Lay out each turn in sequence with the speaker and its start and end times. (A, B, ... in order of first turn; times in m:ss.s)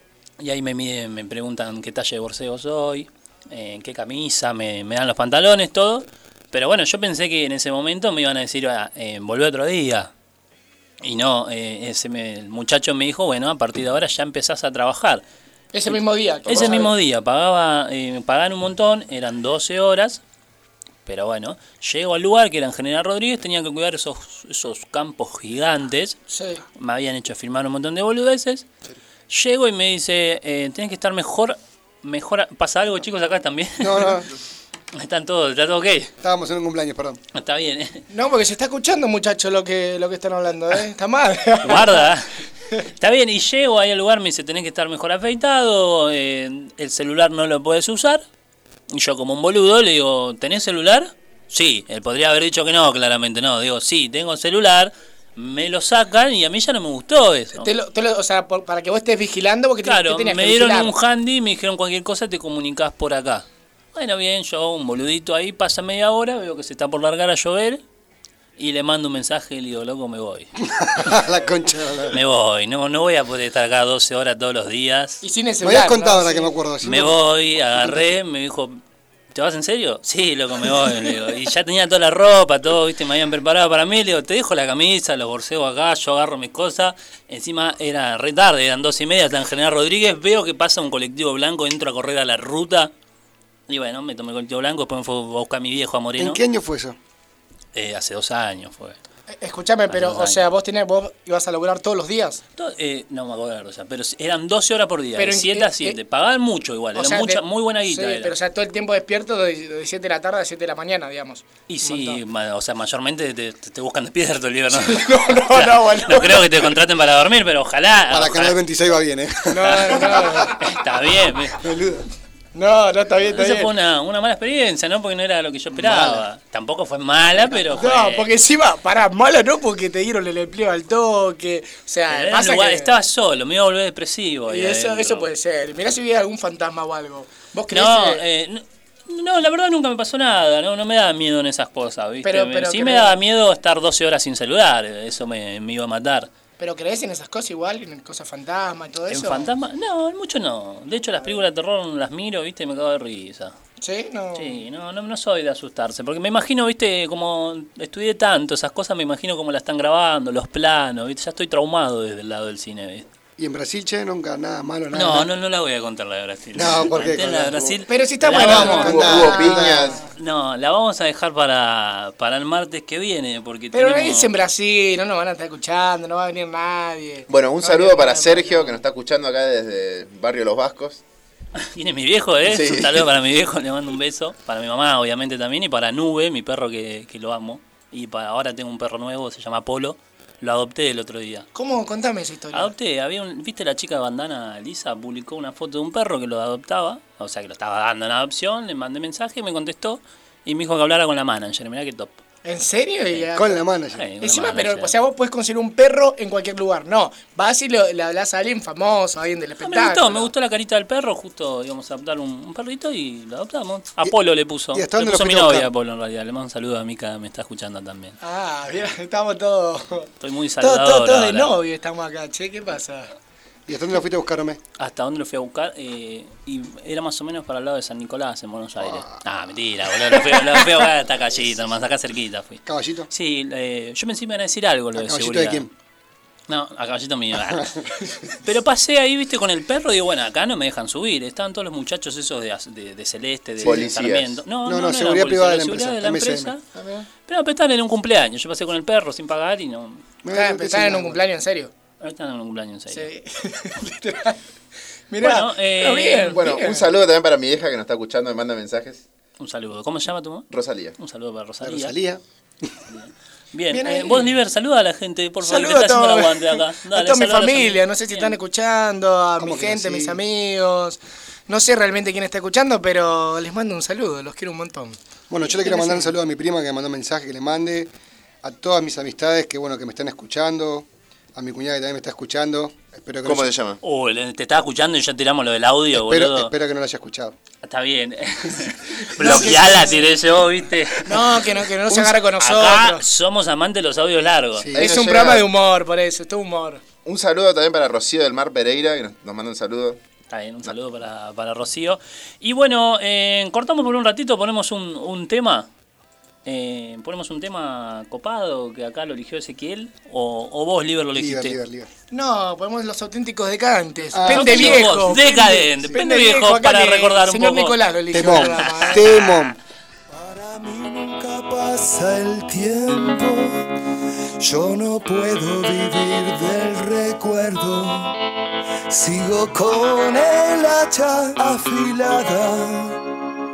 0:00.4-0:10.1 A
0:11.0-0:15.2 A
0:15.7-0:16.9 B
0:15.9-0:20.2 A
0:16.5-0:16.9 C
0:21.1-0:26.2 A
0:26.3-0:26.6 B
0:26.8-0:28.7 A
0:29.3-0:34.2 A
0:33.8-0:34.3 D
0:34.9-0:36.1 A
0:36.2-0:37.2 D
0:37.3-0:38.0 A
0:38.1-0:42.1 B
0:41.6-0:42.3 A
0:43.0-0:48.2 A
0:48.9-0:57.7 A
0:57.6-1:01.0 B
0:59.8-1:07.8 A
1:08.6-1:10.5 A
1:10.6-1:12.2 D
1:12.1-1:15.2 A
1:15.2-1:16.5 B
1:15.6-1:17.2 D
1:16.8-1:18.8 A
1:19.3-1:32.9 A
1:33.7-1:36.4 A
1:36.2-1:37.0 D
1:37.8-1:39.0 A
1:39.3-1:42.4 B
1:39.9-1:40.4 A
1:42.6-1:48.3 A
1:45.2-1:46.0 B
1:47.0-1:52.2 B
1:51.7-1:58.6 A
1:54.7-1:56.7 B
1:58.1-2:00.6 D
1:59.5-2:00.6 B
1:59.7-2:01.6 A
2:01.6-2:02.1 D
2:02.6-2:03.7 B
2:03.3-2:08.3 A
2:05.8-2:06.2 D
2:07.6-2:12.9 B
2:12.1-2:15.3 A
2:14.5-2:18.2 B
2:17.7-2:26.3 A
2:22.2-2:23.2 B
2:26.6-2:29.5 B
2:29.1-2:33.6 A
2:33.8-2:34.6 B
2:34.4-2:43.1 A
2:43.4-2:45.3 D
2:44.9-2:49.2 A
2:46.6-2:47.6 D
2:47.9-2:49.9 B
2:48.2-2:50.0 D
2:48.4-2:50.0 C
2:50.2-2:54.3 A
2:53.7-2:58.8 B
2:57.3-3:01.0 C
3:01.6-3:11.5 A
3:02.4-3:03.1 C
3:11.6-3:12.7 B
3:12.5-3:22.2 A
3:22.4-3:23.6 B
3:23.4-3:24.1 D
3:23.9-3:24.9 A
3:24.2-3:30.3 B
3:29.6-3:38.2 A
3:34.7-3:35.7 D
3:38.2-3:43.1 B
3:40.2-3:41.5 A
3:43.7-3:44.6 D
3:44.8-3:55.7 A
3:48.8-3:49.2 D
3:52.6-3:53.1 D
3:55.0-3:55.7 D
3:56.5-3:57.7 A
3:57.5-3:57.8 D
3:58.4-4:06.6 A
4:03.6-4:04.4 C
4:04.6-4:06.6 D
4:07.3-4:10.0 A
4:10.2-4:11.2 D
4:10.3-4:11.7 B
4:12.0-4:13.1 A
4:12.9-4:14.4 B
4:15.1-4:16.9 B
4:15.2-4:16.4 A
4:16.3-4:19.0 C
4:19.4-4:22.0 A
4:20.5-4:21.0 C
4:21.6-4:22.7 D
4:22.9-4:28.4 A
4:23.7-4:24.4 B
4:25.4-4:35.0 B
4:29.4-4:30.2 D
4:35.3-4:43.5 D
4:35.6-4:36.1 B
4:43.2-4:43.8 C
4:43.8-4:46.5 A
4:45.9-4:47.4 D
4:47.6-4:51.2 A
4:49.2-4:50.1 B
4:49.2-4:49.7 D
4:51.0-4:53.0 B
4:51.9-4:54.7 A
4:54.6-4:55.1 D
4:54.7-4:56.8 B
4:54.8-4:55.4 C
4:57.0-5:00.0 C
5:00.3-5:05.7 A
5:06.4-5:11.6 A
5:11.1-5:11.9 D
5:12.1-5:19.1 B
5:14.1-5:15.1 D
5:14.3-5:18.9 A
5:18.1-5:19.6 D
5:20.1-5:23.7 E
5:24.4-5:28.2 E
5:28.9-5:33.0 E